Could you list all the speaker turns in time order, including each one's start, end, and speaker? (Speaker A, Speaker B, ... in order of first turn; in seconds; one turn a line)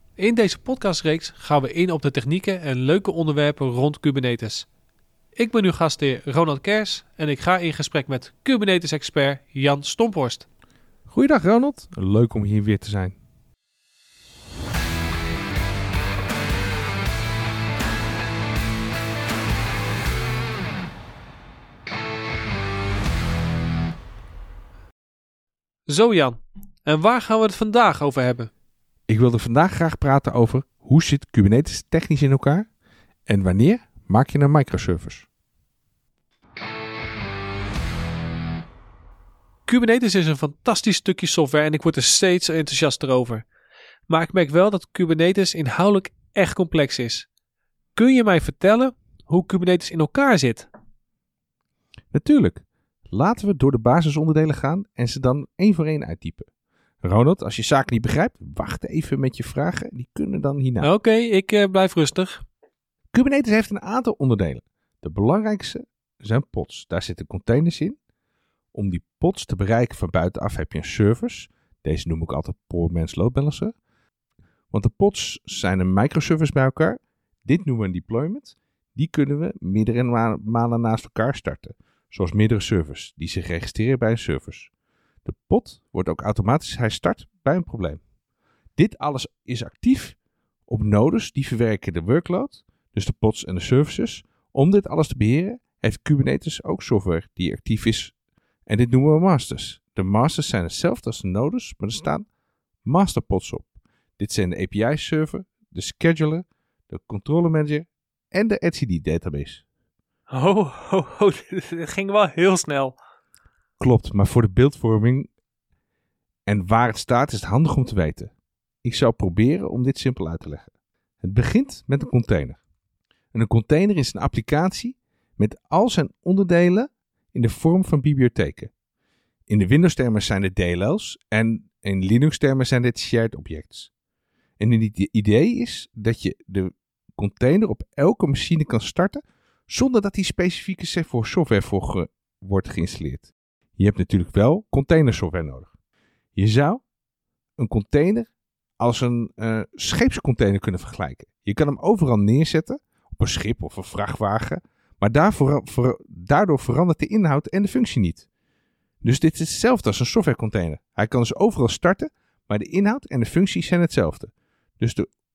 Speaker A: 0.2-4.7
Speaker A: 5.3-10.4
Speaker B: 11.1-13.2
Speaker A: 25.9-28.5
Speaker B: 29.1-32.7
Speaker B: 33.3-35.3
Speaker A: 39.6-43.5
Speaker A: 44.1-47.3
Speaker A: 48.0-50.7
Speaker B: 52.1-56.5
Speaker B: 57.0-60.9
Speaker A: 60.8-62.4
Speaker B: 63.1-68.0
Speaker B: 68.7-73.7
Speaker B: 74.7-84.7
Speaker B: 85.2-88.0
Speaker B: 88.8-98.1
Speaker B: 98.7-102.2
Speaker B: 102.8-109.6
Speaker A: 110.3-113.0
Speaker B: 113.8-115.3
Speaker B: 116.5-118.3
Speaker B: 118.8-120.7
Speaker B: 121.2-122.6
Speaker B: 123.3-128.7
Speaker B: 129.5-133.9
Speaker B: 134.6-145.7
Speaker B: 146.3-146.8
Speaker B: 147.6-158.3
Speaker B: 159.0-165.1